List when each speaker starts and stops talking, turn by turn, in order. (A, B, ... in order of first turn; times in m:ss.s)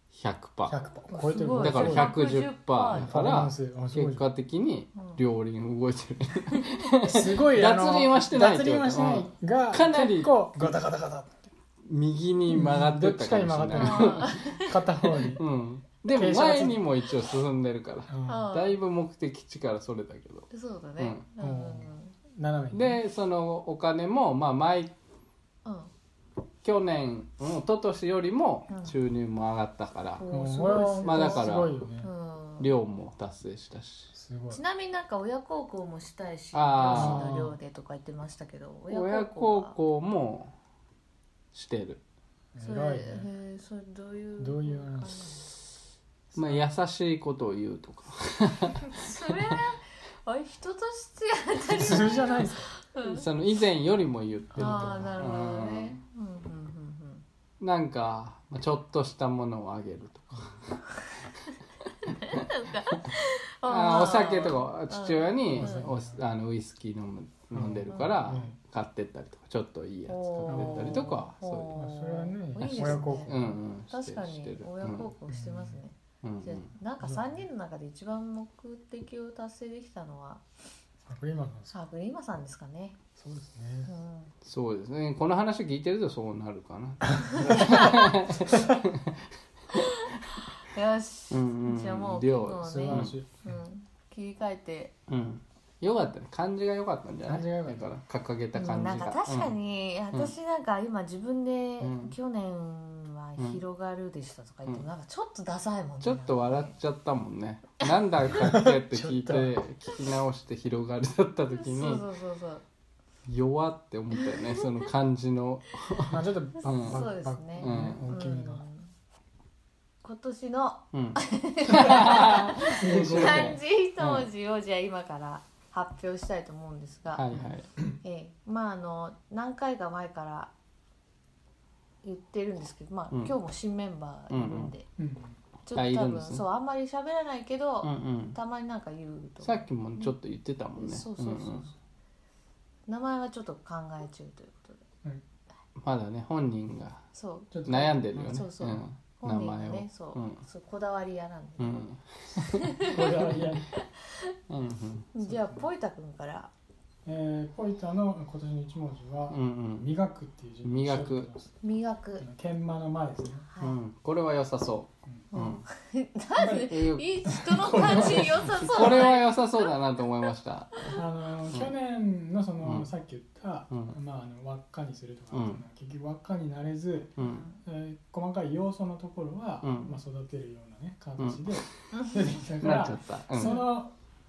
0:00.1-0:00.8 A
0:00.7-0:02.2 B
0:01.1-0:03.2 C
0:01.5-0:10.8 A
0:02.9-0:04.2 B
0:05.0-0:05.2 C
0:07.1-0:11.5 B
0:11.8-0:14.5 A
0:12.5-0:15.4 B
0:13.8-0:14.8 C
0:15.2-0:21.2 A
0:16.1-0:16.8 B
0:18.1-0:18.5 B
0:18.2-0:18.8 C
0:20.5-0:22.2 C
0:21.4-0:23.0 B
0:22.7-0:24.9 A
0:25.6-0:25.9 C
0:26.6-0:30.3 A
0:28.7-0:29.0 C
0:30.2-0:32.7 C
0:30.3-0:32.1 B
0:31.0-0:31.8 A
0:32.6-0:34.1 A
0:34.1-0:34.6 B
0:34.5-0:39.8 C
0:36.5-0:37.3 A
0:36.8-0:37.6 B
0:38.9-0:40.5 A
0:41.5-0:42.0 A
0:42.6-0:43.3 B
0:42.6-0:45.5 C
0:44.4-0:45.4 B
0:46.3-0:46.7 B
0:46.3-0:48.9 A
0:48.9-0:53.3 C
0:51.7-0:52.7 B
0:53.0-0:56.0 A
0:54.5-0:55.2 B
0:54.6-0:57.2 C
0:57.6-1:00.8 A
1:02.2-1:05.9 C
1:03.7-1:11.7 A
1:05.5-1:06.2 B
1:07.5-1:08.6 B
1:07.9-1:08.4 C
1:10.1-1:13.4 C
1:10.5-1:11.2 B
1:11.7-1:13.6 B
1:12.6-1:15.1 A
1:13.9-1:20.4 C
1:15.3-1:15.8 B
1:16.2-1:16.7 A
1:17.0-1:17.4 B
1:21.1-1:21.8 B
1:21.7-1:23.0 C
1:23.2-1:23.9 B
1:23.9-1:24.3 C
1:24.4-1:29.2 A
1:27.5-1:27.8 C
1:30.6-1:35.0 C
1:31.3-1:33.1 A
1:32.6-1:33.6 B
1:35.1-1:39.5 A
1:37.3-1:37.9 B
1:38.6-1:46.8 C
1:41.8-1:42.2 A
1:46.0-1:52.0 A
1:48.3-1:49.6 B
1:51.5-1:52.6 C
1:53.3-1:57.1 A
1:56.1-1:58.6 B
1:56.6-1:58.9 C
1:57.6-1:58.1 A
2:00.0-2:07.3 C
2:00.9-2:04.3 A
2:01.7-2:03.6 B
2:07.1-2:07.7 A
2:07.3-2:08.0 B
2:08.0-2:10.5 C
2:12.0-2:14.9 C
2:14.3-2:14.7 A
2:15.0-2:15.4 B
2:15.7-2:20.2 C
2:15.7-2:16.4 A
2:17.8-2:18.4 A
2:19.4-2:21.6 A
2:20.8-2:21.8 C
2:22.9-2:24.8 C
2:25.8-2:27.0 A
2:27.1-2:27.5 C
2:27.5-2:28.0 B
2:27.6-2:30.4 A
2:28.1-2:31.8 C
2:31.6-2:32.7 A
2:32.6-2:33.8 C
2:32.9-2:33.7 B
2:34.5-2:35.2 A
2:35.1-2:36.5 C
2:35.3-2:35.7 B
2:37.1-2:41.6 B
2:39.3-2:39.9 A
2:40.6-2:41.3 A
2:41.6-2:42.3 C
2:42.2-2:43.5 B
2:43.5-2:43.8 C
2:43.6-2:45.6 A
2:45.3-2:49.7 C
2:46.4-2:49.0 B
2:46.7-2:47.1 A
2:47.7-2:51.7 A
2:50.9-3:03.9 B
2:52.6-2:52.9 A
2:53.7-2:54.0 A
2:55.3-2:55.6 A
2:57.2-2:57.4 A
2:57.2-2:57.6 C
2:59.6-3:00.0 A
3:01.2-3:01.7 A
3:02.6-3:03.6 A
3:03.4-3:03.7 C